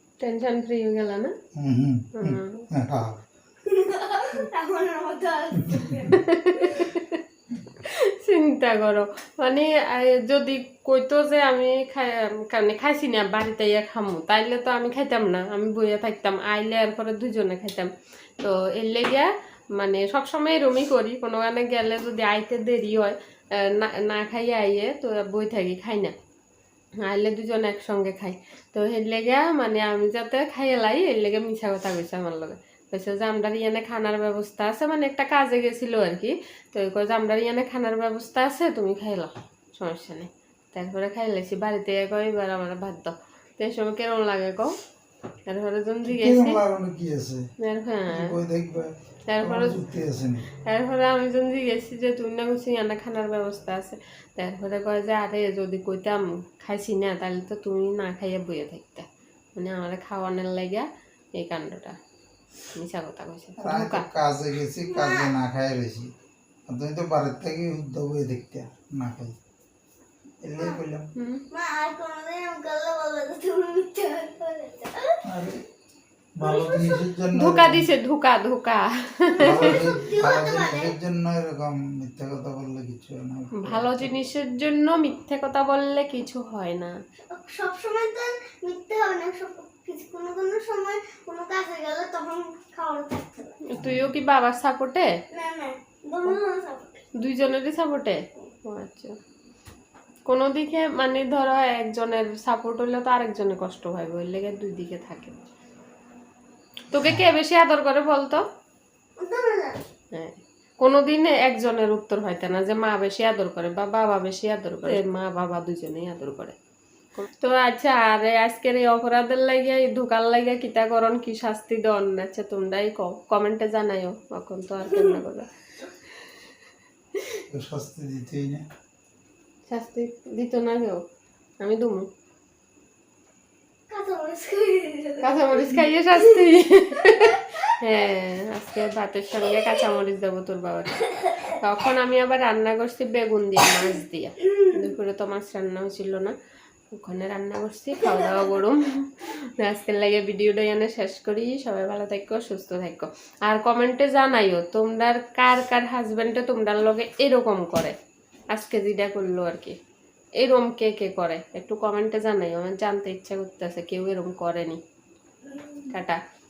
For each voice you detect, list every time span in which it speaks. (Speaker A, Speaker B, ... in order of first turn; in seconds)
Speaker A: 0.2-1.3, 2.2-2.6, 6.1-7.2, 7.8-26.1, 27.0-44.7, 45.5-46.6, 47.6-48.3, 49.3-49.8, 50.6-62.0, 62.7-64.1, 71.2-71.4, 77.3-79.9, 83.6-86.9, 93.7-95.1, 97.2-99.2, 100.2-105.3, 106.9-108.4, 110.1-116.5, 117.2-125.5, 127.1-127.4, 129.7-131.0, 131.6-132.1, 135.2-146.3, 146.9-157.9, 158.5-159.8, 160.4-164.8, 165.9-166.2
Speaker B: 1.6-3.2, 46.1-47.5, 48.1-50.5, 63.6-66.1, 66.7-69.3, 70.4-71.0, 75.2-75.6, 76.4-77.8, 79.4-84.2, 93.8-94.1, 107.0-107.2, 127.5-128.7
Speaker C: 3.6-6.2, 64.9-65.3, 71.5-75.2, 76.4-77.1, 79.4-80.9, 87.3-93.6, 95.3-97.0, 109.2-109.8, 124.9-125.2, 133.9-135.8, 165.5-165.8